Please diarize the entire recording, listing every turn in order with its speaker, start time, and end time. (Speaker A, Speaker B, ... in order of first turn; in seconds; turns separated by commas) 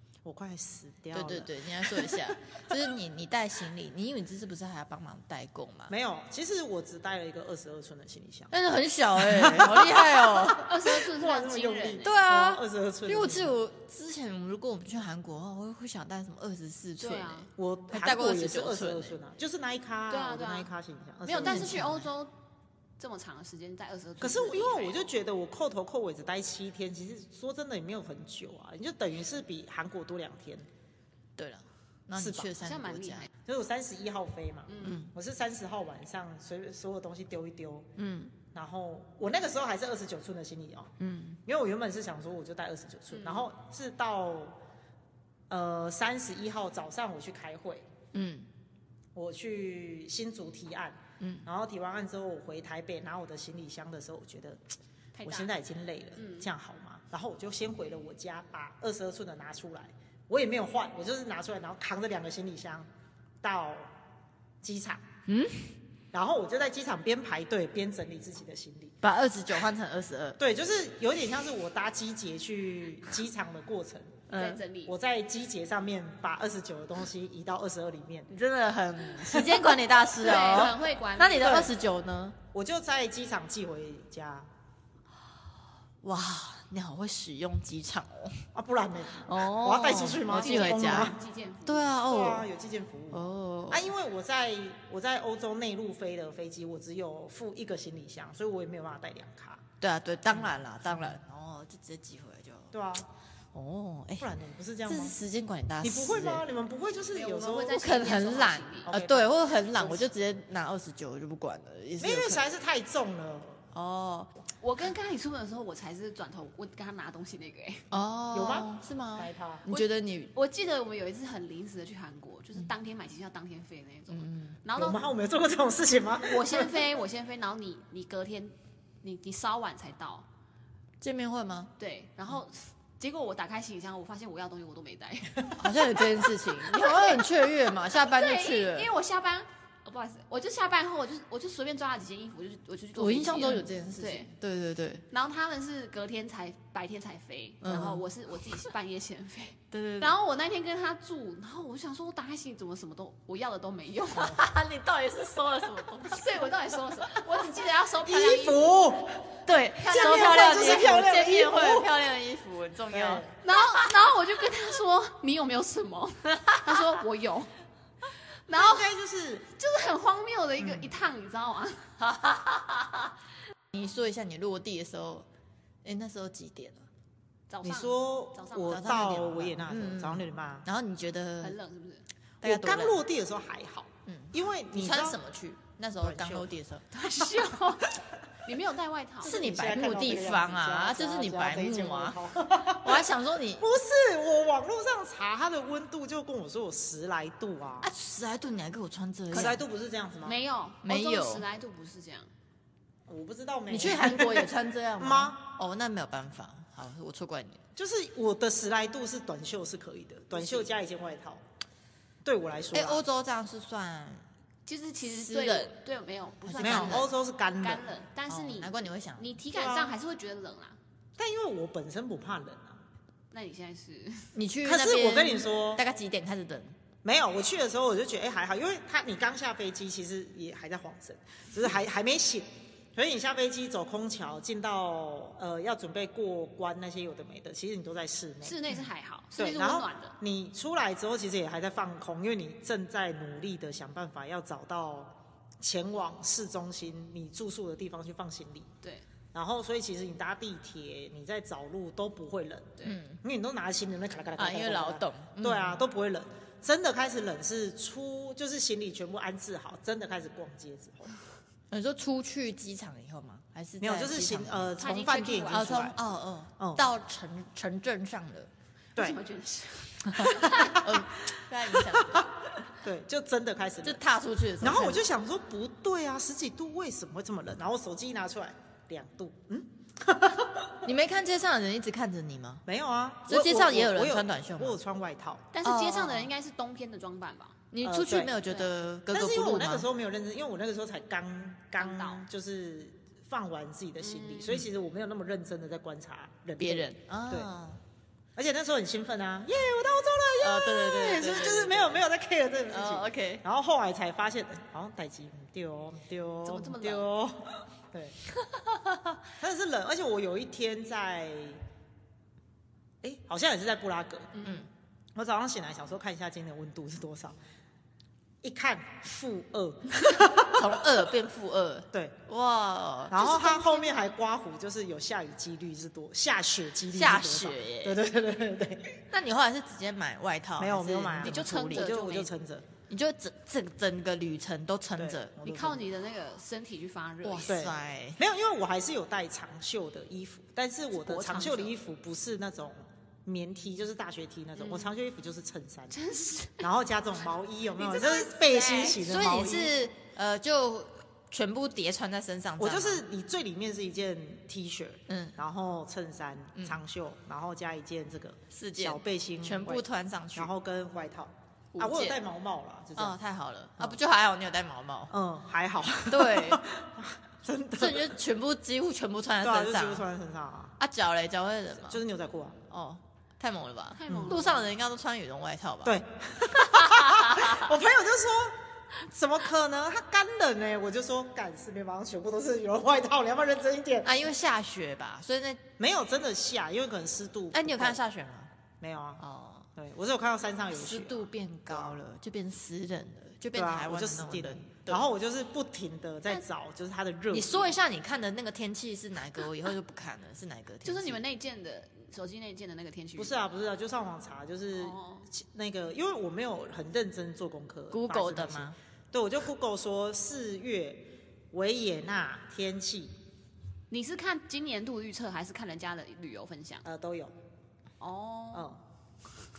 Speaker A: 0.2-2.7, Speaker B: 1.1-5.9, Speaker A: 5.9-8.5, Speaker B: 8.5-10.7, Speaker A: 9.2-13.5, Speaker C: 10.5-12.1, Speaker B: 12.0-19.2, Speaker C: 17.0-17.5, Speaker A: 17.6-21.9, Speaker C: 20.1-20.7, Speaker C: 21.2-22.3, Speaker B: 21.3-22.1, Speaker C: 23.0-25.0, Speaker A: 24.2-30.7, Speaker B: 31.4-33.3, Speaker A: 32.1-32.5, Speaker C: 32.6-33.3, Speaker A: 33.4-37.9, Speaker C: 34.7-35.0, Speaker B: 34.8-35.1, Speaker B: 38.0-38.3, Speaker A: 38.5-40.9, Speaker B: 41.0-41.4, Speaker A: 41.5-44.6, Speaker C: 43.1-43.5, Speaker A: 45.5-47.9, Speaker B: 48.1-48.5, Speaker A: 49.1-54.6, Speaker B: 51.2-51.5, Speaker C: 55.1-55.5, Speaker A: 55.2-62.9, Speaker C: 56.2-56.5, Speaker A: 63.4-63.9, Speaker A: 64.6-65.0, Speaker B: 65.3-65.7, Speaker A: 66.1-69.0, Speaker B: 69.0-70.4, Speaker A: 70.4-74.2, Speaker B: 74.3-74.6, Speaker C: 74.3-74.9, Speaker A: 74.8-78.3, Speaker B: 78.3-82.4, Speaker A: 79.2-79.8, Speaker C: 80.2-81.7, Speaker A: 81.4-81.7, Speaker A: 82.5-84.5, Speaker B: 86.0-88.5, Speaker A: 88.5-91.2, Speaker B: 89.2-92.5, Speaker C: 90.3-91.9, Speaker A: 92.0-99.6, Speaker B: 93.1-93.9, Speaker B: 99.8-102.7, Speaker A: 100.3-101.2, Speaker A: 102.7-103.1, Speaker B: 103.5-104.3, Speaker A: 104.2-105.1, Speaker B: 104.8-106.4, Speaker A: 105.8-107.8, Speaker C: 107.1-108.9, Speaker B: 107.7-112.4, Speaker A: 108.8-110.1, Speaker A: 112.0-113.6, Speaker B: 113.7-114.3, Speaker C: 114.6-117.8, Speaker B: 117.9-120.3, Speaker A: 118.3-119.6, Speaker C: 119.7-125.1, Speaker B: 124.1-124.6, Speaker A: 124.8-126.9, Speaker C: 126.2-130.3, Speaker B: 131.0-131.7, Speaker C: 131.8-135.9, Speaker B: 135.6-138.9, Speaker C: 136.5-144.3, Speaker B: 142.9-145.0, Speaker C: 145.1-154.4, Speaker B: 147.6-148.0, Speaker B: 149.7-150.1, Speaker B: 154.2-156.5, Speaker C: 156.0-158.6, Speaker A: 158.0-161.9, Speaker B: 159.4-164.0, Speaker C: 159.8-160.8, Speaker A: 162.9-163.3, Speaker C: 163.4-167.5, Speaker B: 166.3-167.0, Speaker C: 168.5-168.9, Speaker A: 168.5-169.4, Speaker C: 169.5-171.9, Speaker B: 172.0-173.1, Speaker B: 173.7-175.2, Speaker B: 175.8-176.8, Speaker C: 177.5-178.8, Speaker A: 177.6-180.7, Speaker B: 178.7-181.6, Speaker C: 181.4-182.0, Speaker B: 182.4-183.0, Speaker A: 182.4-185.2, Speaker B: 184.1-186.9, Speaker A: 186.0-186.5, Speaker C: 186.9-189.4, Speaker A: 189.2-197.9, Speaker B: 189.2-193.7, Speaker B: 197.8-199.6, Speaker A: 199.3-200.4, Speaker C: 200.2-202.3, Speaker B: 200.8-201.5, Speaker A: 203.1-205.5, Speaker B: 203.7-207.6, Speaker A: 207.8-211.4, Speaker C: 210.3-210.7, Speaker A: 212.2-213.0, Speaker B: 212.7-214.2, Speaker C: 214.7-220.8, Speaker B: 215.0-215.7, Speaker B: 216.4-217.1, Speaker A: 216.6-217.9, Speaker B: 218.3-219.3, Speaker A: 219.5-220.0, Speaker A: 221.2-222.8, Speaker C: 223.3-224.3, Speaker B: 224.3-226.7, Speaker A: 224.6-225.8, Speaker A: 227.0-238.6, Speaker C: 238.4-240.2, Speaker A: 239.4-248.7, Speaker A: 249.3-261.1, Speaker B: 252.8-253.2, Speaker B: 254.3-255.8, Speaker B: 261.7-264.8, Speaker A: 263.8-266.0, Speaker C: 264.8-265.9, Speaker B: 265.5-268.5, Speaker A: 266.6-266.8, Speaker C: 268.9-270.8, Speaker B: 270.1-272.3, Speaker A: 270.2-274.0, Speaker B: 273.8-275.0, Speaker A: 274.6-280.8, Speaker B: 280.8-282.6, Speaker A: 282.6-285.5, Speaker B: 283.3-284.8, Speaker C: 285.5-287.6, Speaker B: 285.6-286.3, Speaker B: 287.7-289.9, Speaker A: 287.8-288.4, Speaker A: 289.1-297.5, Speaker C: 291.8-292.3, Speaker C: 294.0-294.6, Speaker B: 296.6-297.8, Speaker A: 298.4-308.2, Speaker B: 300.4-302.0, Speaker B: 302.7-303.4, Speaker C: 306.4-307.1, Speaker B: 308.5-309.1, Speaker A: 309.4-311.6, Speaker A: 313.0-314.4, Speaker C: 314.3-314.6, Speaker A: 315.1-317.4, Speaker A: 318.4-321.0, Speaker B: 320.4-323.2, Speaker A: 323.1-329.0, Speaker C: 323.1-324.1, Speaker B: 326.9-328.0, Speaker B: 329.1-332.0, Speaker A: 330.6-332.7, Speaker C: 331.2-332.3, Speaker B: 332.9-335.7, Speaker A: 335.0-335.9, Speaker C: 335.4-337.6, Speaker B: 337.2-338.2, Speaker A: 337.5-346.0, Speaker C: 340.9-341.7, Speaker C: 344.6-344.9, Speaker C: 345.9-346.7, Speaker A: 346.6-349.8, Speaker C: 347.8-349.0, Speaker B: 349.0-353.0, Speaker A: 352.6-363.2, Speaker B: 355.1-355.4, Speaker B: 358.5-360.5, Speaker B: 361.7-362.2, Speaker B: 363.0-365.1, Speaker A: 365.1-368.1, Speaker B: 366.1-366.6, Speaker B: 367.8-370.1, Speaker A: 369.4-370.8, Speaker B: 370.8-372.0, Speaker A: 371.8-372.6, Speaker B: 372.7-376.0, Speaker C: 373.9-374.7, Speaker A: 374.1-374.4, Speaker A: 375.8-384.1, Speaker B: 376.5-377.7, Speaker B: 384.0-385.6, Speaker A: 385.8-388.0, Speaker B: 387.5-388.5, Speaker A: 388.8-389.2, Speaker B: 389.2-389.7, Speaker A: 389.8-392.0, Speaker B: 390.7-395.1, Speaker A: 393.5-397.8, Speaker B: 397.3-401.2, Speaker C: 400.8-403.4, Speaker A: 403.2-413.1, Speaker C: 404.8-405.3, Speaker B: 407.9-408.8, Speaker C: 413.9-416.8, Speaker A: 416.8-417.3, Speaker C: 418.0-418.7, Speaker A: 418.5-418.8